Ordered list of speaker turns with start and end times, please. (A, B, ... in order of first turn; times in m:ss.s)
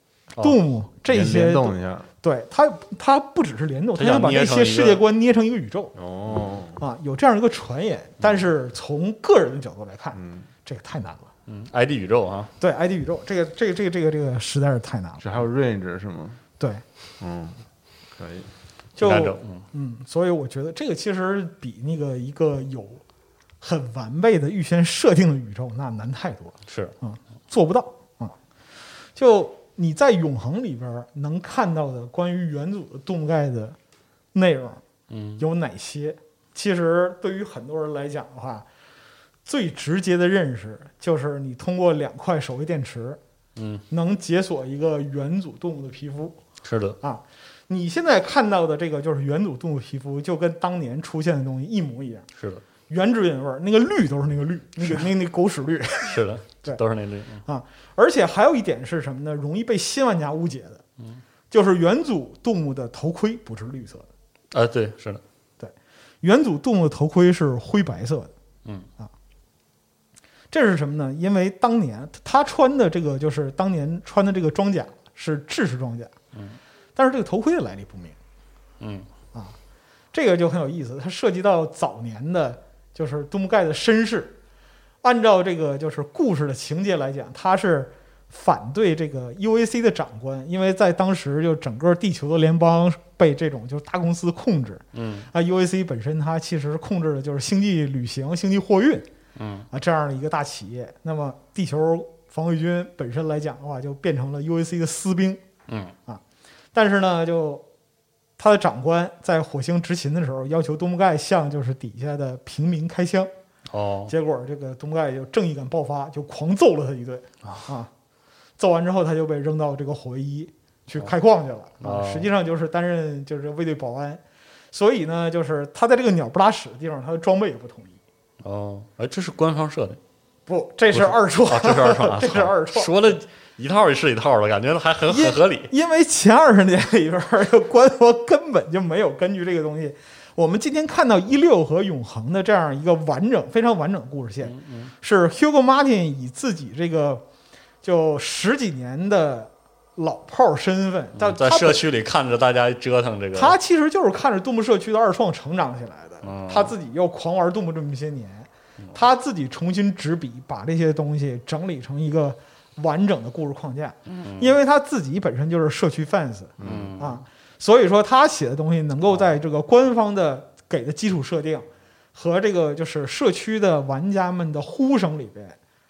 0:00.4-0:00.6 A
0:00.4-0:05.9 B
0:01.1-0:02.1 C
0:04.0-0:05.0 A
0:06.0-0:06.8 C
0:06.8-0:11.3 B
0:10.2-0:10.5 C
0:11.5-0:12.5 A
0:12.6-0:15.2 B
0:15.2-0:16.4 C
0:17.2-0:17.6 C
0:18.2-0:18.5 C
0:19.0-0:23.0 B
0:19.0-0:19.6 A
0:23.6-0:28.4 B
0:26.7-0:26.9 A
0:29.2-0:33.8 B
0:34.3-0:34.8 B
0:35.1-0:35.4 A
0:35.4-0:38.6 B
0:39.4-0:43.2 B
0:43.6-0:43.8 A
0:43.9-0:46.4 B
0:46.6-0:47.0 A
0:47.0-0:52.3 B
0:52.4-0:52.6 A
0:52.9-0:56.8 B
0:56.1-0:57.4 A
0:57.5-1:00.8 B
1:01.5-1:04.1 B
1:04.5-1:05.2 A
1:05.6-1:08.3 B
1:10.5-1:16.1 B
1:16.3-1:16.6 A
1:17.0-1:18.2 B
1:18.8-1:19.1 A
1:20.1-1:24.4 B
1:25.0-1:39.1 B
1:35.0-1:35.3 A
1:39.4-1:39.7 A
1:39.7-1:45.4 B
1:45.7-1:45.9 A
1:46.7-1:47.6 B
1:48.4-1:53.3 B
1:53.7-1:54.1 A
1:54.1-1:57.9 B
1:58.6-2:04.2 B
2:01.8-2:02.3 A
2:04.7-2:08.0 B
2:08.4-2:10.0 A
2:10.5-2:13.1 B
2:10.9-2:15.7 A
2:15.1-2:27.2 B
2:24.4-2:24.9 A
2:27.8-2:31.8 B
2:31.2-2:33.6 A
2:33.3-2:55.6 B
2:36.2-2:36.7 A
2:44.1-2:44.6 A
2:46.6-2:47.0 C
2:46.6-2:47.2 A